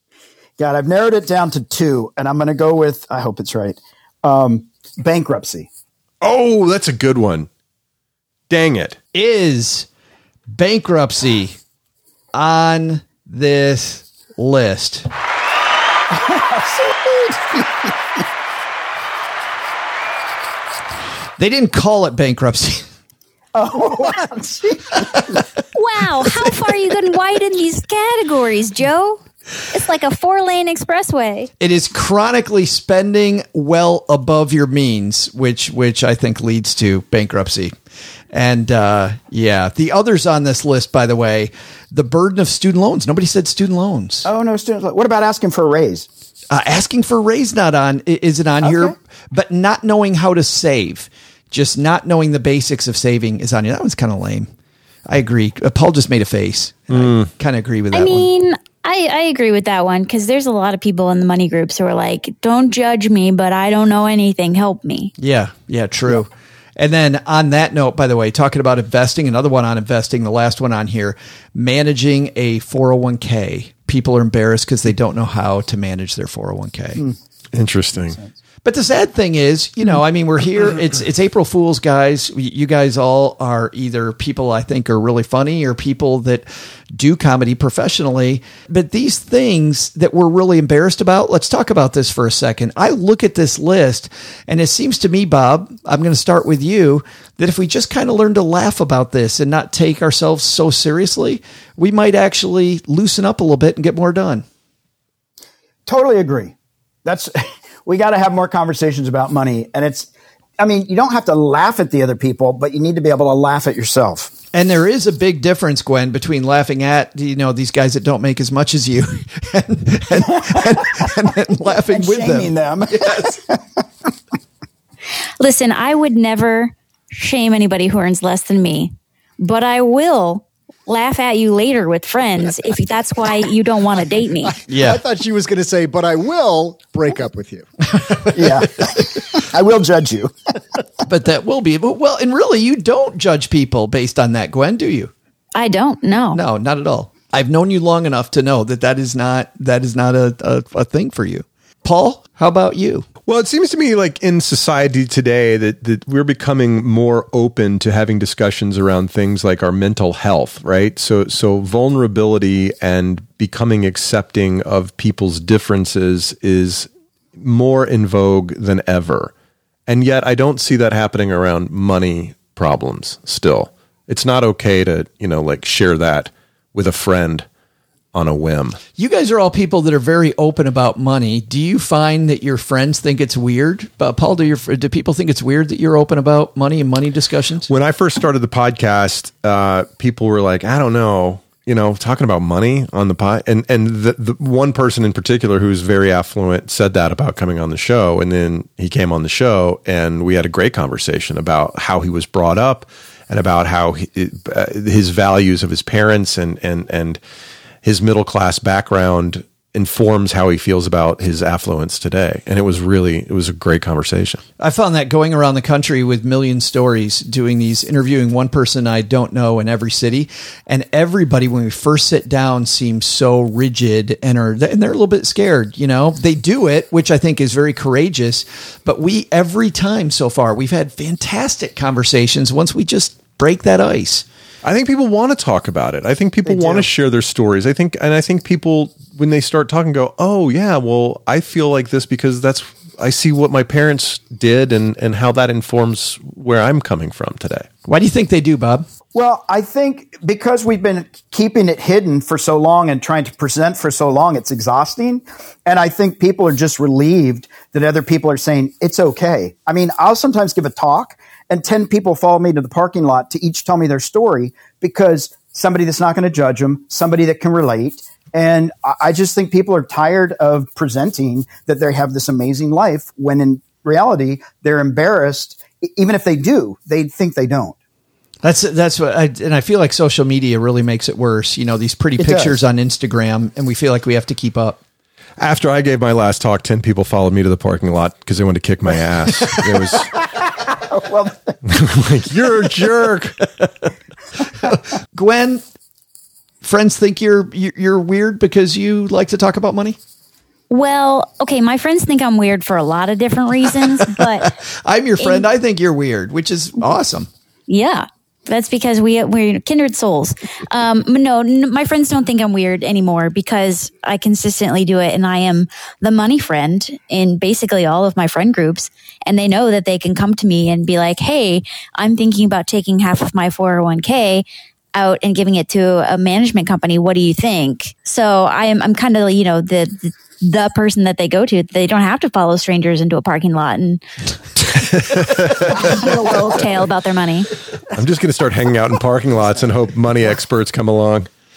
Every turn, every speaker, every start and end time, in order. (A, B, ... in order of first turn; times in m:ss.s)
0:00.6-0:05.7 A
0:06.2-0:07.5 B
0:08.5-0:09.0 B
0:09.1-0:09.9 C
0:10.5-0:11.6 C
0:12.3-0:15.1 C
0:16.1-0:18.2 A
0:21.4-0:22.9 C
0:23.6-0:25.4 A
0:25.0-0:25.4 C
0:25.7-0:31.5 D
0:31.6-0:37.7 C
0:38.3-0:44.3 C
0:44.2-0:46.1 A
0:46.5-0:54.5 C
0:48.6-0:49.0 A
0:55.1-0:58.3 C
0:56.9-0:57.3 B
0:57.9-1:05.1 D
1:05.2-1:17.0 C
1:17.5-1:18.2 B
1:18.6-1:44.4 C
1:45.9-1:54.3 A
1:54.5-2:03.4 C
2:00.2-2:03.8 A
2:05.4-2:14.6 D
2:14.7-2:15.0 C
2:14.7-2:17.7 E
2:17.9-2:19.1 C
2:18.3-2:20.3 A
2:21.1-2:25.1 C
2:25.6-2:26.4 D
2:26.3-2:33.1 C
2:33.3-2:49.3 B
2:49.9-2:57.5 B
2:58.1-2:58.8 B
2:59.0-3:07.7 C
3:07.7-3:27.2 B
3:27.8-3:34.4 B
3:34.6-3:54.2 C
3:54.6-4:07.7 B
4:07.9-4:08.9 C
4:09.1-4:37.8 A
4:38.4-4:44.8 C
4:42.2-4:42.6 A
4:45.4-4:50.1 B
4:49.4-4:50.1 C
4:50.4-4:51.6 A
4:51.7-4:53.4 B
4:53.4-4:55.6 C
4:56.6-5:00.0 C
5:00.7-5:04.6 D
5:04.1-5:07.3 C
5:05.2-5:05.5 D
5:07.7-5:34.0 D
5:34.6-5:34.8 D
5:35.1-5:35.7 B
5:35.7-5:37.5 D
5:37.9-5:41.3 B